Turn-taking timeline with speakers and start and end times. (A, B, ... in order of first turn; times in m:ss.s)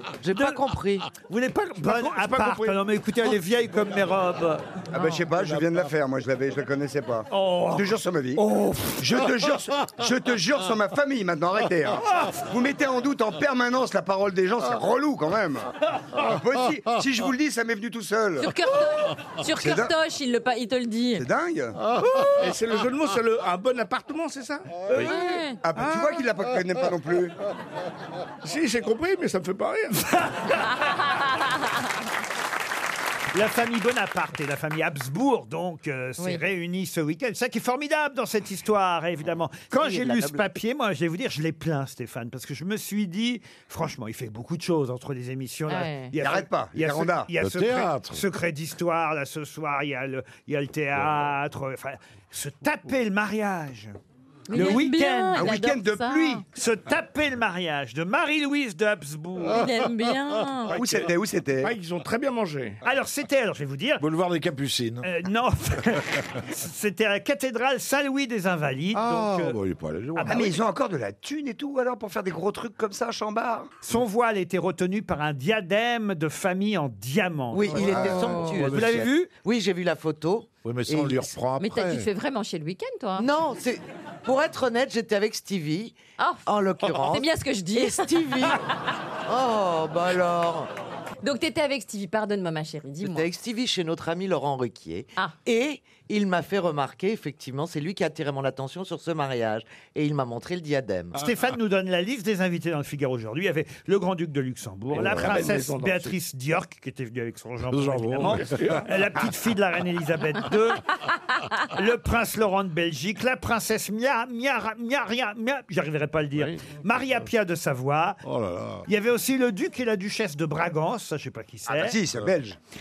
0:00.2-0:01.1 A
0:01.2-0:04.7 B
0:01.8-0:02.8 C
0:04.9-0:08.4 D
0:07.3-0:09.0 B
0:09.0-0:18.5 D
0:12.1-0:12.4 B
0:18.4-0:21.3 E
0:19.5-0:19.9 D
0:21.2-0:21.8 D
0:22.4-0:25.1 C
0:25.0-0:25.6 E
0:25.6-0:27.4 D
0:25.8-0:26.2 C
0:28.4-0:30.2 C
0:33.3-0:54.0 B
0:39.8-0:40.4 A
0:45.7-0:46.1 E
0:46.2-0:47.3 D
0:47.4-0:48.2 F
0:54.5-0:56.4 E
0:54.5-0:55.6 B
0:55.4-0:56.5 D
0:56.5-0:59.7 B
0:59.5-1:00.8 E
1:00.7-1:01.8 D
1:00.7-1:02.8 C
1:02.8-1:04.0 B
1:04.0-1:05.1 F
1:05.0-1:09.6 B
1:08.9-1:10.5 F
1:10.2-1:10.6 B
1:10.3-1:13.7 D
1:13.8-1:19.3 B
1:17.5-1:21.3 A
1:17.7-1:19.1 F
1:20.6-1:22.1 F
1:21.6-1:23.3 E
1:23.2-1:28.6 A
1:26.2-1:28.5 E
1:29.3-1:30.7 A
1:31.2-1:33.3 E
1:33.0-1:41.2 A
1:41.2-1:58.2 B
1:44.9-1:46.2 C
1:45.0-1:45.5 F
1:47.7-1:48.8 F
1:48.2-1:48.9 C
1:58.2-1:58.9 F
1:58.9-2:02.0 B
2:01.7-2:02.6 D